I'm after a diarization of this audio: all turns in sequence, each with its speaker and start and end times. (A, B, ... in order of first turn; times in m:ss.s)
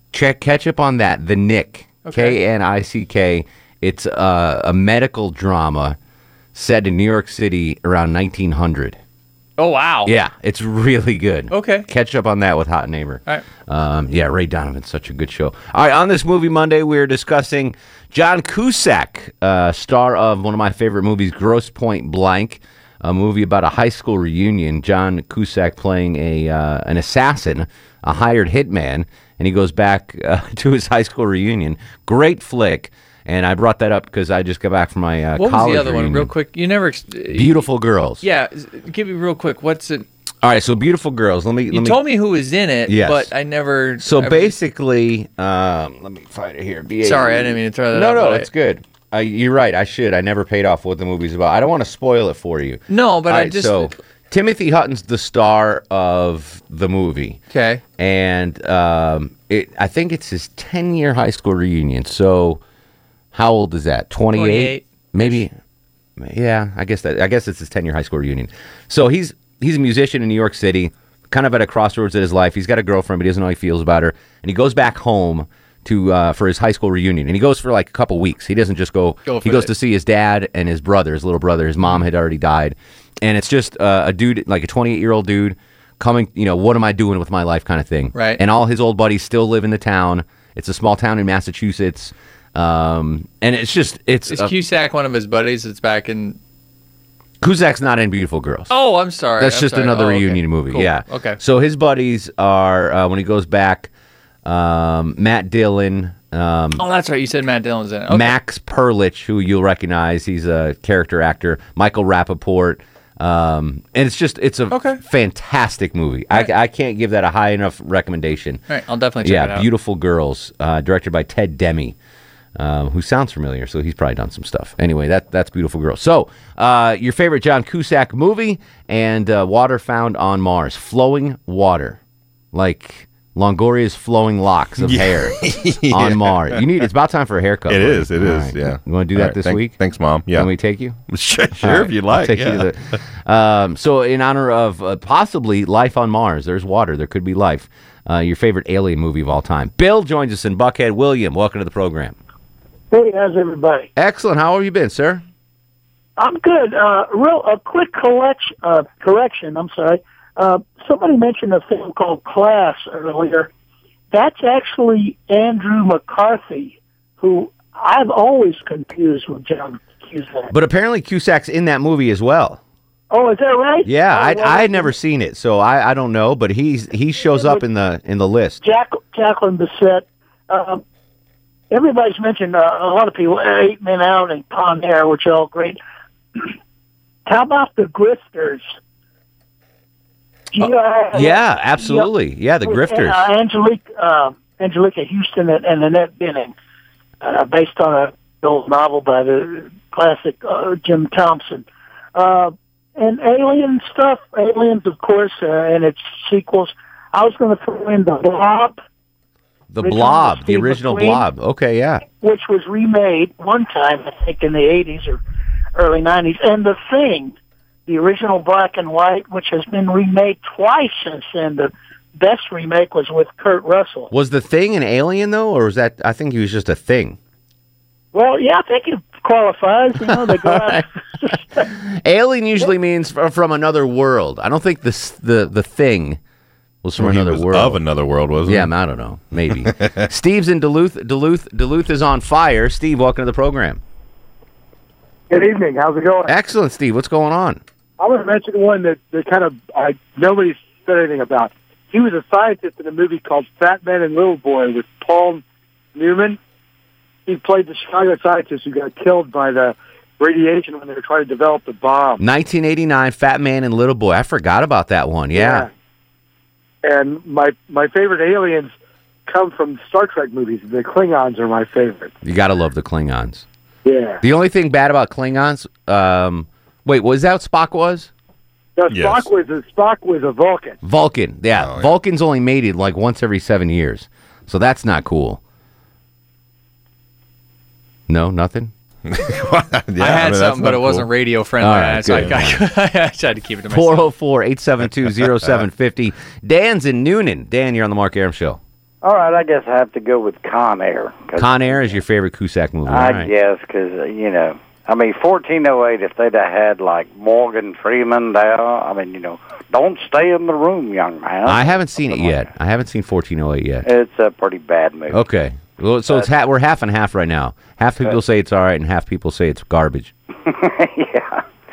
0:00.1-0:06.0 A
0:02.0-0:02.4 B
0:06.5-0:09.0 A
0:09.6-0:10.1 B
0:10.0-0:36.3 A
0:11.5-0:11.9 B
0:35.4-0:37.6 B
0:37.3-0:38.2 A
0:38.2-0:40.0 B
0:40.4-0:42.0 A
0:41.7-0:44.6 B
0:42.8-0:43.3 A
0:44.0-0:57.4 A
0:47.0-0:48.5 B
0:52.9-0:53.9 B
0:57.5-0:57.8 B
0:58.0-1:02.6 A
1:03.3-1:05.5 A
1:04.3-1:05.4 B
1:06.2-1:34.5 A
1:19.2-1:19.7 B
1:28.1-1:28.4 B
1:34.3-1:36.4 B
1:37.4-1:38.7 A
1:38.7-1:41.4 B
1:39.4-1:43.9 A
1:44.4-1:46.8 A
1:46.8-1:48.3 B
1:48.1-1:58.6 A
1:54.7-1:55.0 B
1:58.7-1:59.7 B
1:59.2-2:02.0 A
2:02.6-2:12.0 A
2:12.5-2:15.4 A
2:14.8-2:16.6 C
2:15.9-2:19.8 A
2:17.7-2:20.5 C
2:20.3-2:21.0 A
2:21.1-2:22.7 C
2:21.6-2:32.2 A
2:32.9-2:33.9 D
2:34.0-2:35.2 A
2:36.2-2:43.5 D
2:44.1-2:50.5 D
2:50.5-2:52.6 A
2:53.1-2:54.9 D
2:53.8-2:58.6 A
2:57.2-2:57.6 D
2:58.6-3:00.8 D
3:01.7-3:05.8 D
3:07.2-3:08.7 D
3:10.5-3:12.1 D
3:11.1-3:13.2 A
3:12.6-3:16.5 D
3:17.2-3:28.8 D
3:29.7-3:32.0 A
3:29.8-3:31.2 D
3:32.1-3:35.2 D
3:35.8-3:37.3 D
3:37.9-3:44.1 D
3:44.1-3:47.2 A
3:48.1-3:51.7 D
3:50.1-3:50.8 A
3:51.8-3:56.2 A
3:56.8-3:57.8 A
3:57.0-3:58.7 C
3:58.4-4:03.8 A
3:59.6-4:00.0 C
4:05.3-4:06.3 E
4:06.3-4:07.6 A
4:08.0-4:15.4 E
4:15.9-4:16.4 E
4:17.2-4:22.2 E
4:22.2-4:25.7 A
4:25.3-4:25.7 E
4:26.8-4:28.7 E
4:29.2-4:32.1 E
4:32.2-4:33.4 A
4:33.8-4:34.2 E
4:34.2-4:38.1 A
4:38.8-4:40.8 E
4:38.9-4:39.3 C
4:40.8-4:45.4 A
4:41.6-4:41.9 C
4:48.1-4:48.7 A
4:49.1-4:51.1 C
4:50.0-4:54.1 B
4:51.6-4:52.6 A
4:53.7-4:58.6 A
4:59.0-5:02.0 F
5:01.4-5:03.3 A
5:02.8-5:12.5 F
5:11.5-5:13.8 A
5:13.8-5:15.2 F
5:15.1-5:20.1 A
5:20.4-5:21.4 F